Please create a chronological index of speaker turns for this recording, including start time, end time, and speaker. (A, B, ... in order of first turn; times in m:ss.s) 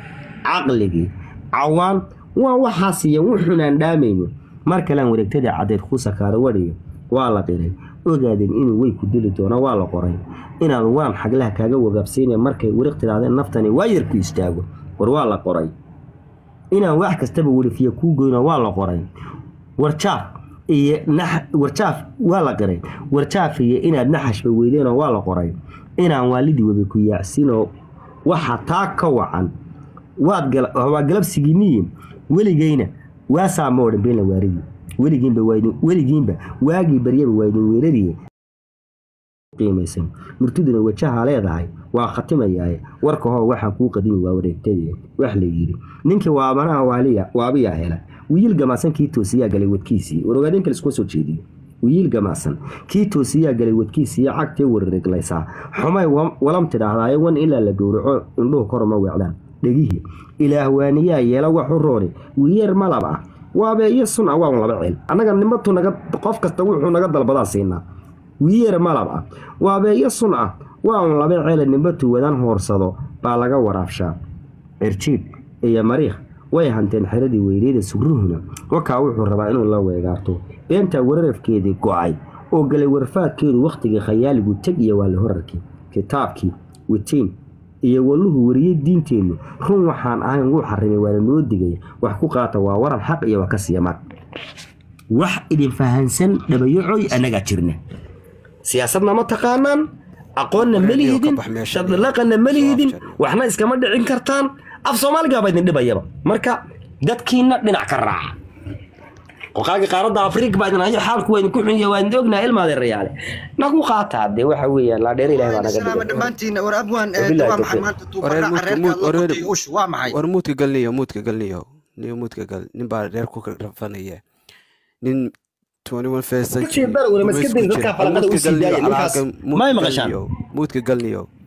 0:00.4-0:15.7 A
0:16.7-0:19.0 A
0:19.8-0:27.7 A
0:28.2-0:29.5 A
0:30.2-0:38.2 A
0:39.5-1:07.8 A
1:08.4-1:14.1 A
1:14.8-1:34.0 A
1:35.1-1:37.8 A
1:38.6-1:39.8 A
1:40.4-1:48.3 A
1:40.6-1:43.2 B
1:49.5-1:56.3 A
1:55.3-2:00.2 C
1:57.1-1:57.9 A
1:58.2-1:59.5 B
2:00.1-2:04.2 B
2:05.0-2:05.3 B
2:05.8-2:11.3 B
2:06.6-2:10.2 A